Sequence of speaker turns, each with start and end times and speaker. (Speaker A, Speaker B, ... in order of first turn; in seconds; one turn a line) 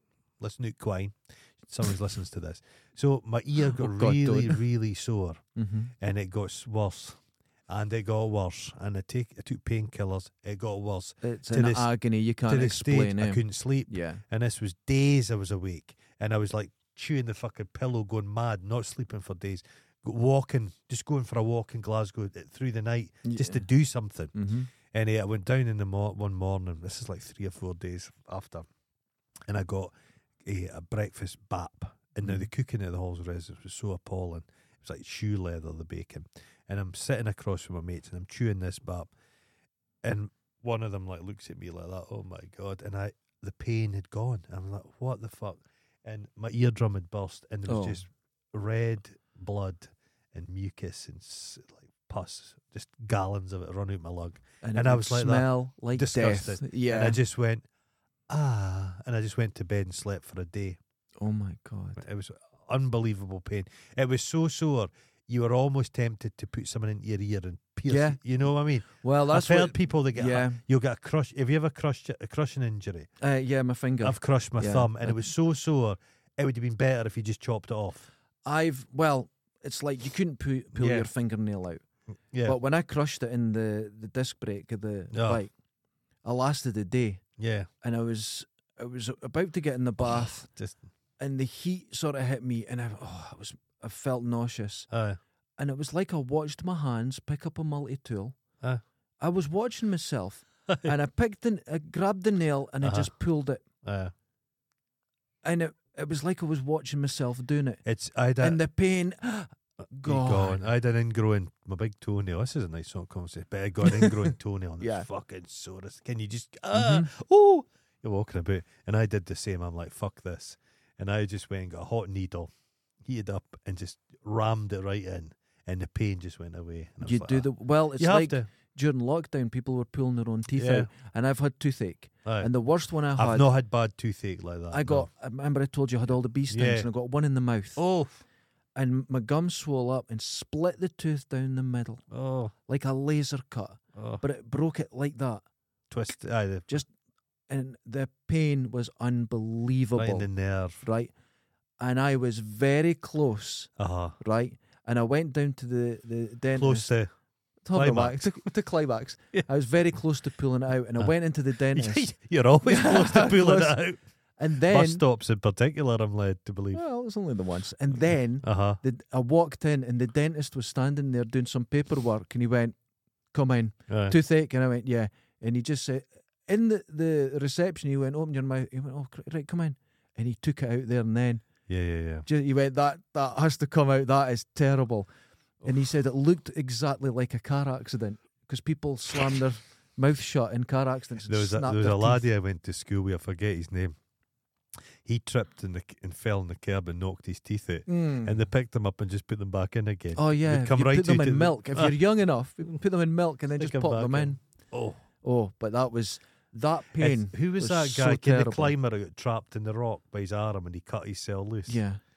Speaker A: 0.4-5.4
Speaker B: 3.6-4.6
Speaker B: 5.6-5.9
Speaker A: 6.0-11.9
Speaker B: 11.2-14.2
Speaker A: 12.5-28.7
Speaker B: 23.2-23.7
Speaker B: 24.3-24.7
Speaker A: 29.5-29.9
Speaker A: 30.4-39.1
Speaker B: 32.2-32.5
Speaker A: 40.0-57.6
Speaker B: 47.7-48.0
Speaker B: 54.6-57.2
Speaker A: 58.3-60.8
Speaker B: 61.2-62.0
Speaker A: 62.0-73.1
Speaker B: 67.9-68.2
Speaker B: 68.9-70.6
Speaker B: 73.2-75.2
Speaker A: 74.0-78.1
Speaker B: 78.5-81.8
Speaker A: 80.7-81.1
Speaker A: 82.3-82.6
Speaker B: 82.4-85.5
Speaker A: 85.1-85.4
Speaker B: 86.2-87.2
Speaker A: 87.4-87.7
Speaker B: 87.8-90.5
Speaker A: 90.1-90.8
Speaker B: 91.2-94.9
Speaker A: 94.9-95.2
Speaker B: 95.6-98.4
Speaker B: 99.2-103.6
Speaker A: 102.8-103.1
Speaker A: 103.8-104.1
Speaker B: 105.4-107.8
Speaker A: 107.8-108.6
Speaker B: 108.4-110.6
Speaker A: 110.0-122.5
Speaker B: 113.8-115.1
Speaker B: 116.7-117.1
Speaker A: 123.0-128.5
Speaker B: 127.0-133.5
Speaker A: 130.6-130.9
Speaker A: 133.2-135.1
Speaker B: 134.7-137.8
Speaker A: 136.5-136.9
Speaker A: 137.8-138.2
Speaker B: 138.8-142.0
Speaker A: 142.1-142.5
Speaker B: 142.7-145.4
Speaker A: 143.9-144.2
Speaker A: 145.9-146.8
Speaker B: 147.5-150.3
Speaker A: 150.0-150.8
Speaker B: 150.8-151.1
Speaker B: 151.8-156.9
Speaker A: 153.8-154.2
Speaker A: 156.6-157.1
Speaker B: 157.7-162.1
Speaker A: 157.7-158.4
Speaker A: 161.7-164.0
Speaker B: 162.7-163.8
Speaker B: 164.4-165.0
Speaker A: 164.7-166.8
Speaker B: 166.7-172.8
Speaker A: 168.4-168.8
Speaker B: 173.3-181.4
Speaker A: 173.9-174.2
Speaker A: 181.7-182.3
Speaker B: 182.2-185.1
Speaker B: 185.6-192.2
Speaker A: 191.3-194.0
Speaker A: 195.0-202.0
Speaker B: 197.9-198.4
Speaker B: 200.2-204.4
Speaker A: 203.6-205.0
Speaker B: 205.2-208.7
Speaker A: 207.0-211.8
Speaker B: 211.7-212.0